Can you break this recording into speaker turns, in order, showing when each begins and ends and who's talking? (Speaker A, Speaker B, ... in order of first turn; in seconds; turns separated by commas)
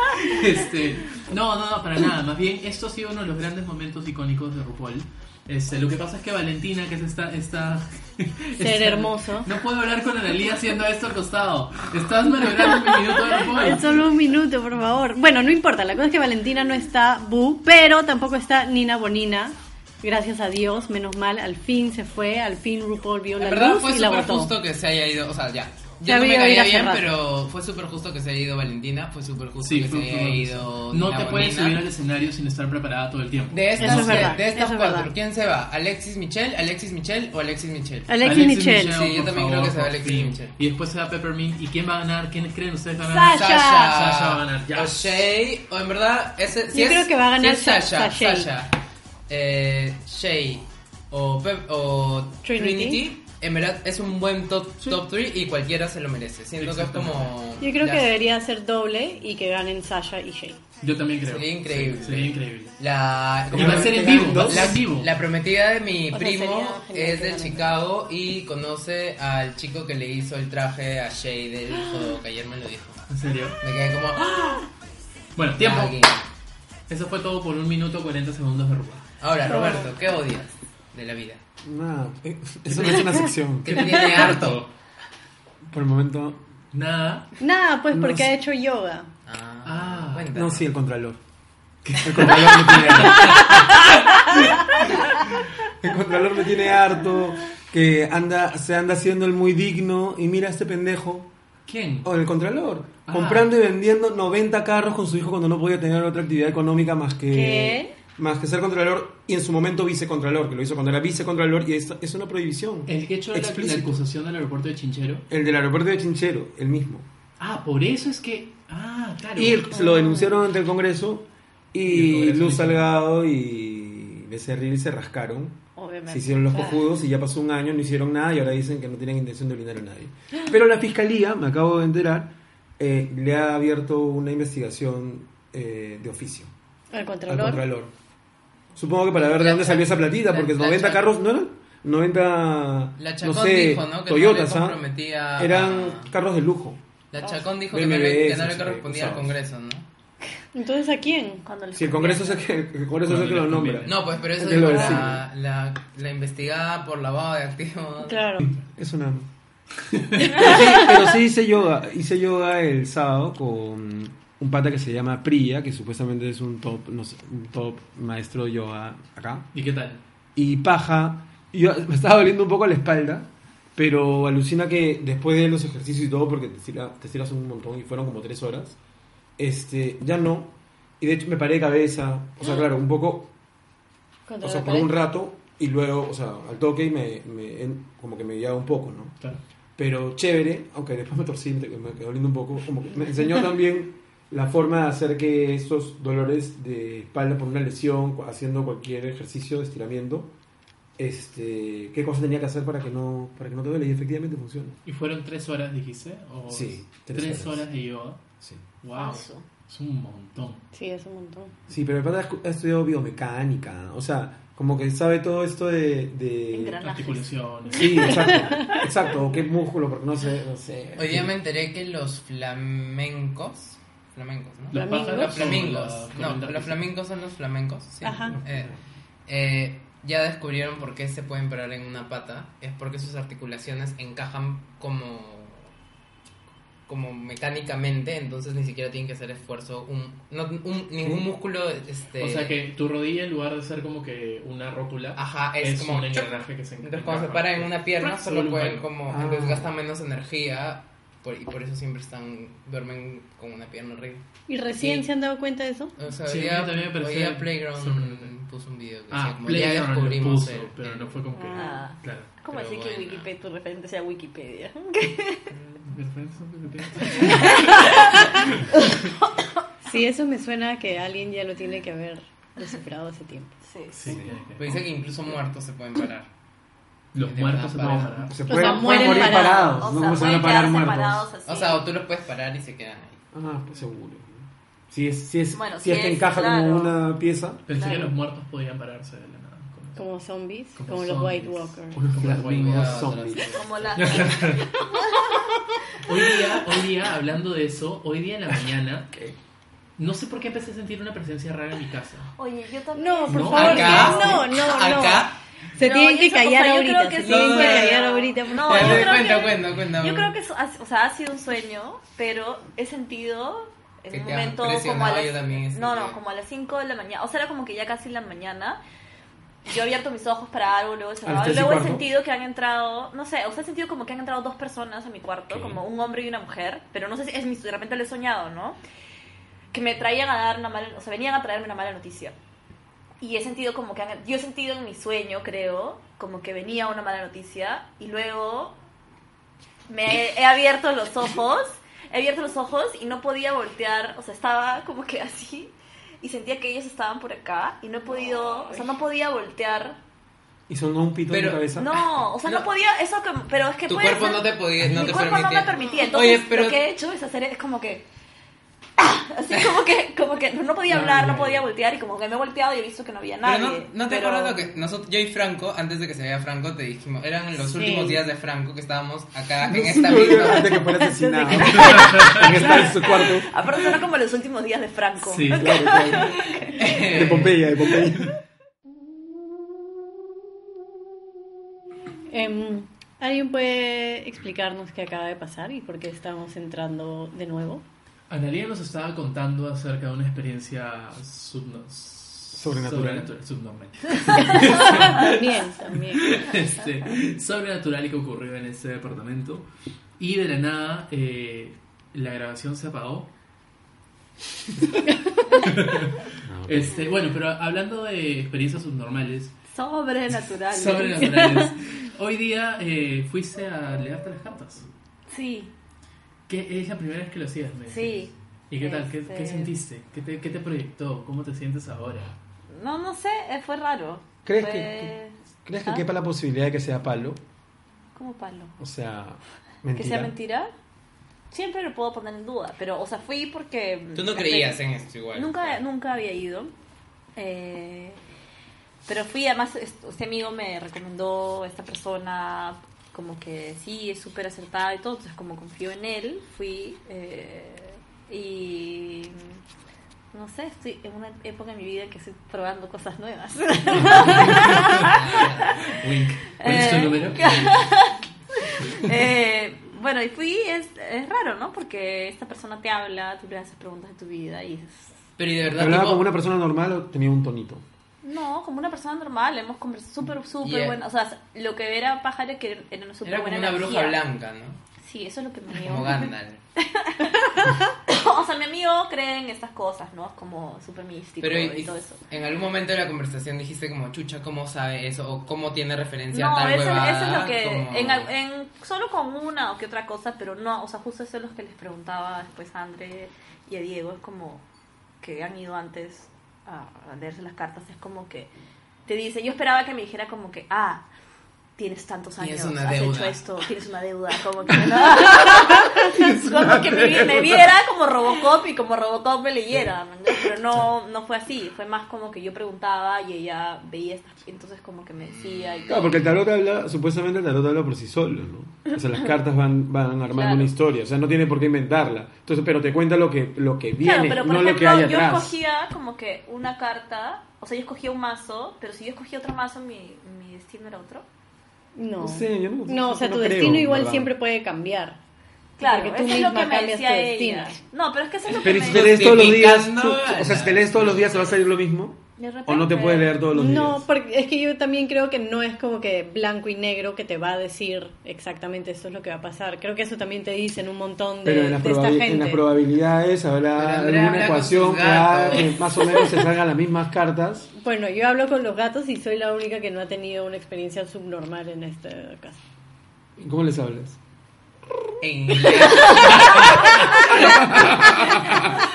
Speaker A: 0.2-14.0, Speaker B: 8.6-9.5, Speaker B: 13.3-24.5, Speaker C: 23.4-31.8, Speaker B: 26.0-27.1, Speaker A: 29.6-34.4, Speaker C: 33.5-40.6, Speaker B: 33.8-35.1, Speaker B: 38.1-38.9, Speaker A: 38.2-45.2, Speaker B: 43.0-43.9, Speaker C: 43.3-48.8, Speaker B: 46.7-48.5, Speaker C: 49.3-58.0, Speaker B: 52.4-53.0, Speaker A: 56.6-57.4, Speaker B: 57.6-60.6, Speaker A: 60.8-62.8, Speaker C: 61.2-73.0, Speaker A: 63.5-65.1, Speaker D: 63.5-64.8, Speaker B: 66.1-67.7, Speaker A: 73.1-73.6, Speaker C: 73.6-74.5, Speaker A: 75.3-76.1, Speaker C: 75.6-76.2, Speaker A: 76.9-79.1, Speaker C: 79.2-81.4, Speaker B: 79.5-79.9, Speaker D: 81.6-84.0, Speaker C: 83.6-84.6, Speaker A: 83.7-84.7, Speaker D: 85.7-86.4, Speaker A: 86.7-87.3, Speaker B: 87.4-89.1, Speaker D: 87.9-88.3, Speaker C: 89.2-90.7, Speaker A: 89.6-90.3, Speaker D: 90.3-91.2, Speaker A: 91.8-93.7, Speaker D: 92.0-101.3, Speaker A: 101.7-102.1, Speaker D: 102.0-114.0, Speaker A: 103.0-103.5, Speaker E: 107.3-107.9, Speaker A: 112.8-115.2, Speaker D: 115.3-117.1, Speaker A: 117.4-119.7, Speaker D: 119.3-136.5, Speaker B: 119.7-120.4, Speaker A: 121.8-122.9, Speaker E: 125.8-126.6, Speaker B: 136.9-137.6, Speaker D: 137.3-137.9, Speaker D: 138.7-144.8, Speaker C: 139.2-141.1, Speaker C: 143.0-146.1, Speaker D: 145.3-146.8, Speaker C: 147.1-149.8, Speaker D: 147.7-149.4, Speaker B: 150.5-151.4, Speaker E: 151.4-152.4, Speaker D: 151.7-155.2, Speaker A: 153.0-154.3, Speaker C: 153.8-158.3, Speaker B: 158.0-158.5, Speaker D: 158.4-159.3, Speaker A: 159.9-160.3, Speaker D: 160.2-169.5, Speaker E: 160.3-160.9, Speaker A: 169.5-170.0, Speaker D: 170.3-178.8, Speaker D: 179.4-183.3, Speaker B: 184.3-184.9, Speaker D: 184.4-189.1, Speaker D: 189.8-200.3, Speaker D: 201.0-204.8, Speaker A: 204.8-208.3, Speaker D: 206.5-207.7, Speaker A: 208.8-210.6, Speaker E: 208.9-209.5, Speaker B: 210.7-211.5, Speaker D: 211.7-216.8, Speaker E: 216.5-217.3, Speaker A: 216.8-218.5, Speaker D: 217.7-221.4, Speaker B: 218.0-218.8, Speaker C: 220.9-228.7, Speaker A: 224.7-226.9, Speaker B: 224.7-225.4, Speaker B: 228.0-228.3, Speaker D: 228.2-228.7, Speaker C: 229.3-235.7, Speaker C: 236.9-242.6, Speaker A: 242.2-248.9, Speaker C: 245.2-254.2, Speaker D: 249.1-249.8, Speaker B: 254.5-255.9, Speaker C: 256.0-261.2, Speaker A: 256.2-258.3, Speaker A: 259.1-262.4, Speaker B: 261.3-261.8, Speaker E: 261.5-265.5, Speaker C: 262.5-263.3, Speaker C: 265.5-265.8, Speaker A: 265.8-267.9, Speaker E: 267.0-269.3, Speaker A: 268.5-268.8, Speaker B: 269.9-273.6, Speaker E: 273.6-274.2, Speaker A: 273.9-274.8, Speaker D: 274.1-274.3, Speaker C: 274.6-276.3, Speaker A: 277.1-278.6, Speaker C: 277.2-278.2, Speaker D: 278.2-281.3, Speaker B: 278.5-279.9, Speaker E: 278.6-281.9, Speaker C: 281.4-283.2, Speaker D: 283.3-287.6, Speaker E: 285.5-287.0, Speaker A: 287.7-290.0, Speaker E: 287.7-288.1, Speaker B: 289.9-292.0, Speaker A: 290.7-293.2, Speaker D: 292.0-293.5, Speaker C: 292.2-294.6, Speaker E: 293.4-295.4, Speaker A: 293.9-294.7, Speaker A: 296.0-299.1, Speaker A: 300.0-302.3, Speaker E: 302.4-304.5, Speaker B: 302.9-309.1, Speaker A: 303.3-304.2, Speaker C: 303.5-305.4, Speaker E: 305.8-318.8, Speaker C: 307.2-310.3, Speaker C: 314.1-316.2, Speaker E: 319.6-328.8, Speaker D: 321.2-322.1, Speaker D: 325.5-325.8, Speaker E: 329.7-332.3, Speaker E: 333.2-338.8, Speaker E: 339.9-350.0, Speaker D: 350.7-352.0, Speaker C: 351.3-351.8, Speaker E: 351.7-358.1, Speaker C: 352.4-352.7, Speaker C: 353.9-356.8, Speaker E: 359.0-364.7, Speaker D: 360.9-361.6, Speaker C: 363.4-370.8, Speaker B: 367.6-368.2, Speaker D: 369.6-373.5, Speaker B: 370.2-372.8, Speaker A: 371.9-372.4, Speaker E: 372.6-377.2, Speaker A: 375.2-375.7, Speaker D: 375.5-376.4, Speaker C: 376.8-377.6, Speaker D: 377.0-378.3, Speaker B: 382.3-387.8, Speaker A: 388.3-399.7, Speaker D: 392.5-393.3, Speaker B: 394.4-396.3, Speaker A: 400.2-403.3, Speaker A: 405.6-409.6, Speaker D: 406.5-407.0, Speaker E: 409.7-411.7, Speaker A: 410.7-414.9, Speaker E: 415.3-415.7, Speaker A: 416.5-422.3, Speaker E: 417.9-419.7, Speaker E: 422.7-425.3, Speaker D: 424.4-425.1, Speaker D: 425.6-427.4, Speaker E: 428.1-428.8, Speaker D: 428.8-430.3, Speaker E: 429.9-430.7, Speaker E: 431.5-434.8, Speaker C: 434.1-435.8, Speaker E: 435.3-436.7, Speaker E: 437.4-438.2, Speaker E: 439.1-449.6, Speaker E: 450.3-455.9, Speaker A: 454.0-455.1, Speaker C: 454.4-455.8, Speaker A: 455.9-457.8, Speaker E: 456.5-465.2, Speaker C: 465.4-466.3, Speaker D: 465.7-467.8, Speaker E: 468.2-474.2, Speaker C: 470.6-471.0, Speaker C: 473.2-474.8, Speaker E: 475.0-482.2, Speaker C: 475.7-476.6, Speaker C: 481.4-488.3, Speaker E: 486.3-494.6, Speaker E: 495.2-498.5, Speaker E: 499.1-501.1, Speaker E: 501.8-516.2, Speaker C: 502.4-503.4, Speaker D: 506.1-507.6, Speaker C: 515.2-516.1, Speaker D: 515.9-525.6, Speaker E: 520.3-520.7, Speaker E: 524.0-531.2, Speaker B: 532.0-535.2, Speaker D: 532.2-534.3, Speaker E: 535.8-539.3, Speaker B: 535.8-537.8, Speaker C: 538.5-541.6, Speaker D: 538.6-544.0, Speaker E: 542.4-543.4, Speaker B: 543.5-552.7, Speaker D: 551.4-557.7, Speaker C: 553.7-555.9, Speaker B: 557.8-562.6, Speaker D: 563.4-564.2, Speaker C: 565.2-568.6, Speaker E: 565.6-567.4, Speaker D: 567.5-568.6